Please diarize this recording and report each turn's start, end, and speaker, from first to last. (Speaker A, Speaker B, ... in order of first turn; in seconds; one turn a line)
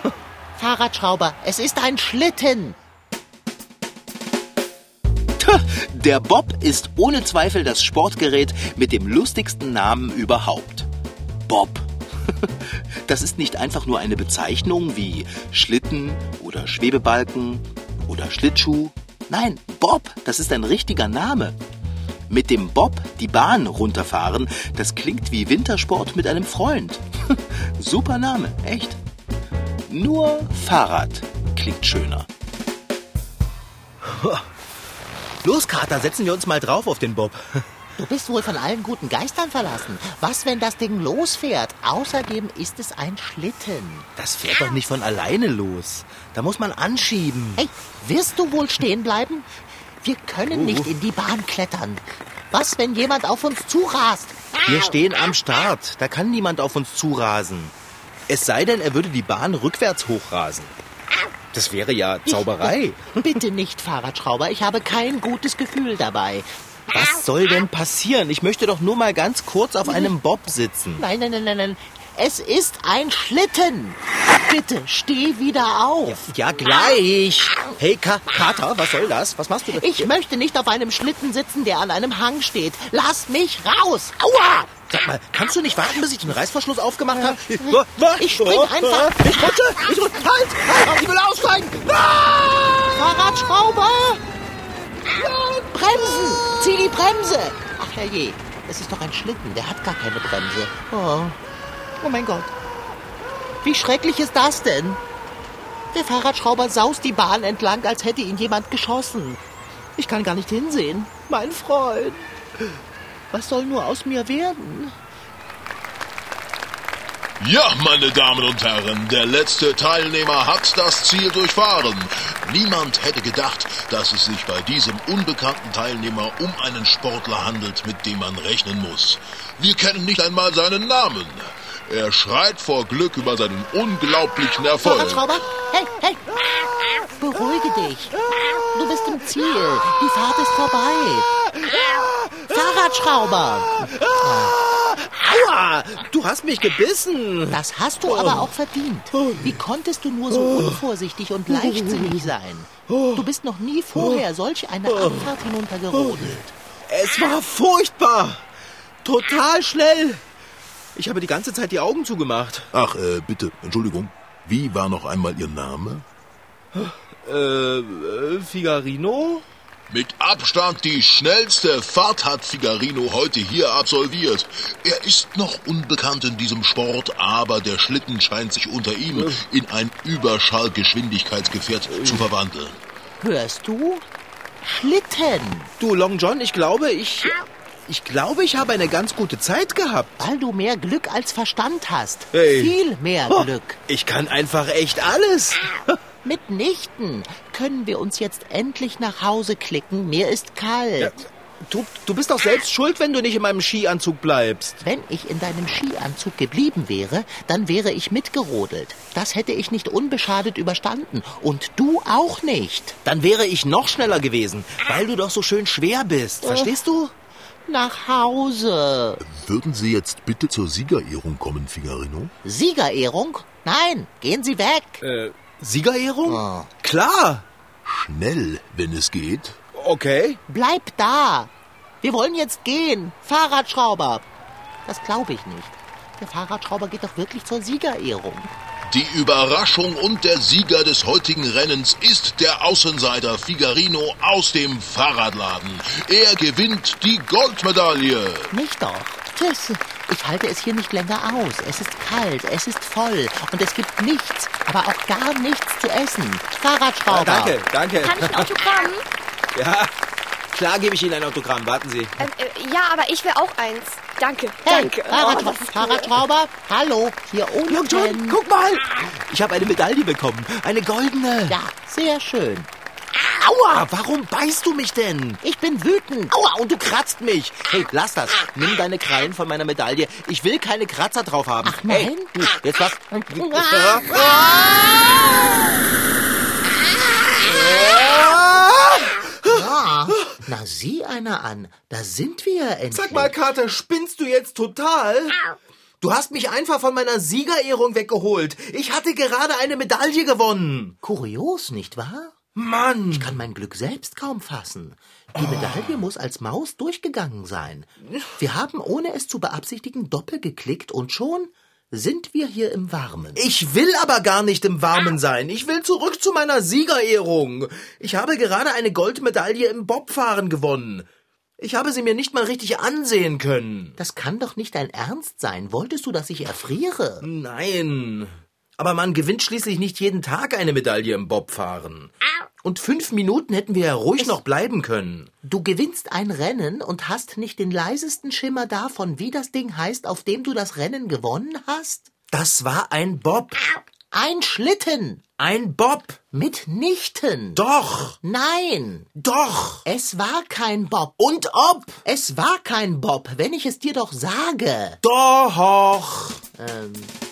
Speaker A: 0.6-2.8
Speaker B: 5.4-10.9
Speaker B: 11.5-21.6
Speaker B: 22.3-29.0
Speaker B: 29.9-32.3
Speaker B: 34.0-34.5
Speaker B: 35.4-37.7
Speaker A: 38.0-44.0
Speaker B: 44.2-47.6
Speaker A: 47.6-49.5
Speaker A: 50.0-54.4
Speaker B: 50.5-50.9
Speaker B: 54.6-57.7
Speaker B: 58.3-60.7
Speaker B: 61.5-63.2
Speaker A: 62.2-66.5
Speaker B: 66.9-71.0
Speaker A: 69.8-70.1
Speaker A: 71.0-76.2
Speaker B: 76.0-80.1
Speaker A: 79.7-84.4
Speaker B: 84.4-92.9
Speaker A: 87.2-89.6
Speaker A: 90.6-91.1
Speaker A: 92.9-94.2
Speaker A: 95.0-101.4
Speaker A: 102.0-102.5
Speaker A: 103.6-105.0
Speaker A: 105.9-109.4
Speaker A: 110.0-112.3
Speaker A: 113.3-115.0
Speaker C: 117.4-135.2
Speaker A: 134.8-136.2
Speaker A: 137.2-141.3
Speaker B: 141.7-142.1
Speaker A: 142.5-144.5
Speaker B: 143.8-147.6
Speaker A: 147.5-156.5
Speaker B: 148.1-148.5
Speaker B: 149.1-149.5
Speaker B: 150.4-150.8
Speaker B: 151.5-152.3
Speaker B: 152.9-153.2
Speaker B: 153.9-154.2
Speaker B: 154.9-155.3
Speaker B: 156.0-156.3
Speaker B: 156.9-158.4
Speaker B: 159.0-160.2
Speaker B: 160.9-162.7
Speaker C: 162.7-166.0
Speaker B: 166.7-169.4
Speaker C: 169.9-182.8
Speaker A: 183.2-184.1
Speaker A: 184.6-185.7
Speaker B: 185.8-190.1
Speaker A: 190.2-193.8
Speaker B: 192.3-192.7
Speaker B: 193.3-195.7
Speaker A: 196.2-201.1
Speaker B: 201.0-204.8
Speaker A: 204.8-212.9
Speaker B: 213.0-217.1
Speaker A: 216.4-216.8
Speaker A: 217.7-219.2
Speaker C: 219.2-222.3
Speaker A: 222.4-225.0
Speaker B: 225.0-227.4
Speaker A: 226.2-226.7
Speaker C: 227.8-229.6
Speaker B: 229.7-230.4
Speaker A: 230.5-231.5
Speaker A: 232.0-234.3
Speaker A: 234.8-238.5
Speaker C: 238.9-248.5
Speaker A: 248.5-257.6
Speaker B: 257.1-258.5
Speaker D: 258.0-259.0
Speaker B: 259.5-259.9
Speaker B: 260.5-262.1
Speaker D: 262.2-266.1
Speaker A: 264.6-268.4
Speaker B: 267.7-271.6
Speaker A: 271.5-272.7
Speaker B: 273.1-275.4
Speaker A: 275.4-276.3
Speaker B: 276.3-284.4
Speaker A: 281.6-284.9
Speaker B: 287.4-290.3
Speaker A: 289.4-293.3
Speaker B: 292.9-295.4
Speaker B: 296.0-300.9
Speaker A: 301.0-302.3
Speaker B: 302.5-303.4
Speaker A: 303.1-313.4
Speaker B: 313.4-321.1
Speaker B: 321.6-323.9
Speaker A: 324.0-327.2
Speaker B: 327.2-335.3
Speaker A: 335.4-342.1
Speaker B: 342.3-343.6
Speaker A: 344.1-345.2
Speaker B: 345.4-346.2
Speaker A: 346.3-347.6
Speaker B: 347.6-348.2
Speaker A: 348.2-349.1
Speaker B: 349.1-349.8
Speaker A: 349.8-351.2
Speaker B: 351.2-352.0
Speaker A: 352.0-355.0
Speaker B: 355.0-356.4
Speaker A: 356.6-357.1